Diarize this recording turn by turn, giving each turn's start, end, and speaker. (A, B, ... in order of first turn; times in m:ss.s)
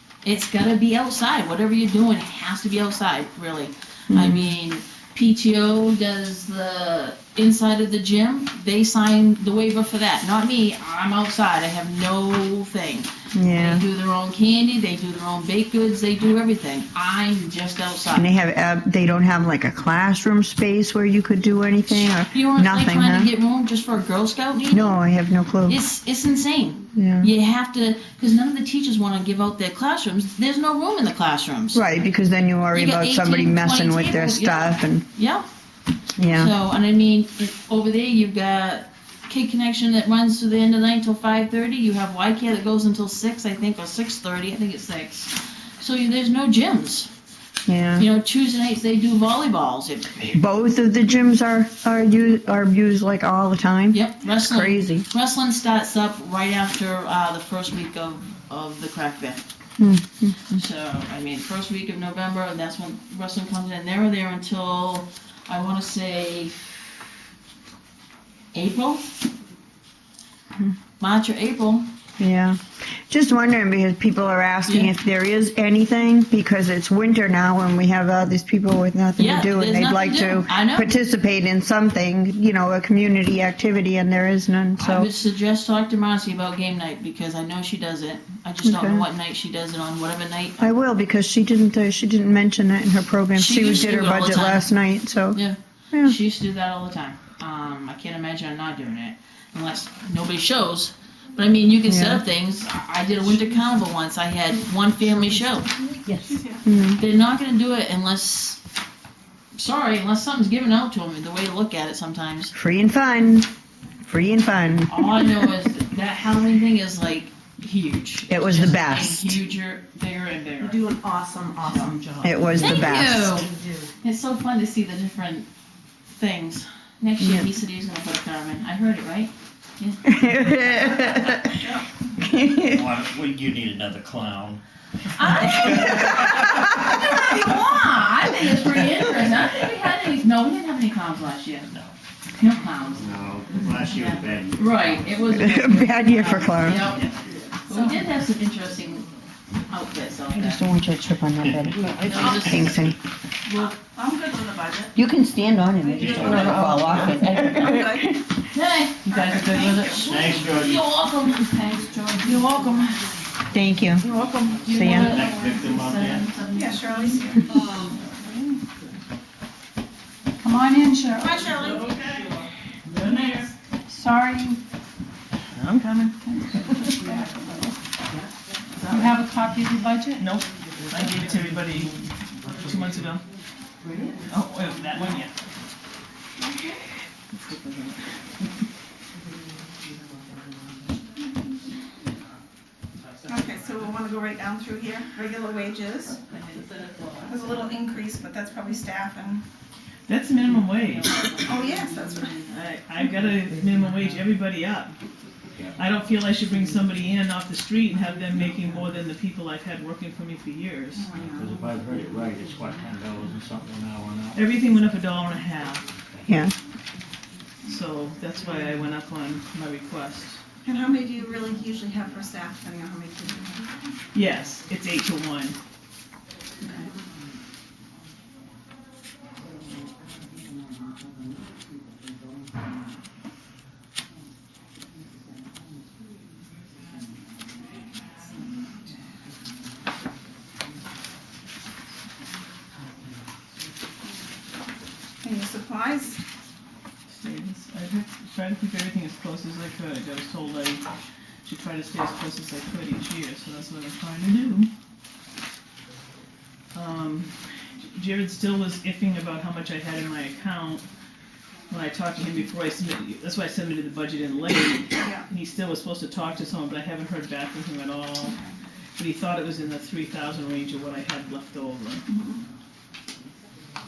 0:00.2-0:18.3 A
0:04.1-0:04.5 B
0:13.3-0:13.8 B
0:18.1-0:23.3 B
0:21.9-0:25.0 A
0:24.7-0:25.8 B
0:25.7-0:31.8 A
0:26.9-0:27.3 B
0:31.7-0:35.0 B
0:32.7-0:35.4 A
0:36.2-0:36.5 B
0:36.2-0:47.1 A
0:47.7-0:48.0 B
0:48.0-0:50.3 A
0:50.2-0:55.0 B
0:53.9-0:59.4 A
0:59.8-1:00.4 B
1:00.4-1:06.6 A
1:08.5-1:09.1 A
1:11.0-1:11.9 A
1:12.2-1:25.1 B
1:14.7-1:14.9 A
1:19.2-1:20.9 A
1:24.8-1:30.6 A
1:28.6-1:29.0 B
1:30.6-1:35.4 B
1:33.3-1:34.7 A
1:35.3-1:45.7 A
1:41.8-1:42.2 B
1:46.2-1:46.6 C
1:46.6-1:47.0 B
1:47.0-1:48.6 A
1:49.6-1:52.5 A
1:52.5-1:53.5 B
1:54.0-1:55.5 B
1:54.9-2:00.8 A
1:58.3-1:59.4 B
2:00.8-2:02.3 D
2:01.6-2:02.0 A
2:02.2-2:03.4 B
2:02.5-2:05.5 A
2:06.1-2:10.0 A
2:07.2-2:07.4 B
2:10.0-2:11.6 B
2:11.4-2:11.8 C
2:12.2-2:12.8 B
2:12.5-2:14.6 E
2:15.1-2:21.7 A
2:15.4-2:16.0 E
2:22.4-2:27.1 A
2:23.0-2:25.2 E
2:25.3-2:26.9 B
2:26.8-2:27.2 E
2:27.6-2:29.1 A
2:29.7-2:30.6 A
2:30.3-2:33.0 B
2:31.4-2:31.8 E
2:32.0-2:32.8 A
2:33.5-2:34.9 C
2:35.0-2:38.3 B
2:35.8-2:38.2 C
2:35.9-2:37.1 E
2:36.3-2:36.6 A
2:38.5-2:43.0 A
2:39.1-2:40.3 C
2:40.0-2:40.8 E
2:42.4-2:42.8 C
2:43.5-2:44.0 B
2:44.0-2:45.6 C
2:44.1-2:47.9 A
2:44.7-2:45.2 B
2:44.9-2:46.3 E
2:46.5-2:48.6 C
2:50.8-2:51.6 C
2:51.0-2:52.0 A
2:51.5-2:52.2 F
2:52.9-2:53.5 F
2:53.0-2:53.3 A
2:53.9-2:54.5 A
2:55.5-2:57.0 F
2:57.1-2:57.4 D
2:58.8-3:00.2 A
2:58.9-2:59.3 D
3:00.2-3:03.2 F
3:00.9-3:01.9 D
3:04.2-3:05.3 F
3:06.4-3:06.8 C
3:07.3-3:08.1 F
3:13.2-3:16.2 C
3:17.2-3:19.4 C
3:20.1-3:21.2 F
3:21.1-3:22.4 C
3:21.3-3:21.8 A
3:22.4-3:25.0 F
3:25.8-3:31.1 F
3:30.9-3:31.5 C
3:31.1-3:34.4 E
3:34.3-3:35.9 F
3:36.0-3:36.3 E
3:36.3-3:36.5 B
3:37.6-3:40.4 F
3:40.6-3:43.7 C
3:44.1-3:45.6 F
3:46.6-3:46.9 C
4:05.2-4:06.2 C
4:07.1-4:10.8 F
4:11.4-4:14.7 F
4:16.7-4:20.8 F
4:21.7-4:28.4 F
4:25.0-4:25.2 C
4:29.0-4:32.0 F
4:32.1-4:32.4 C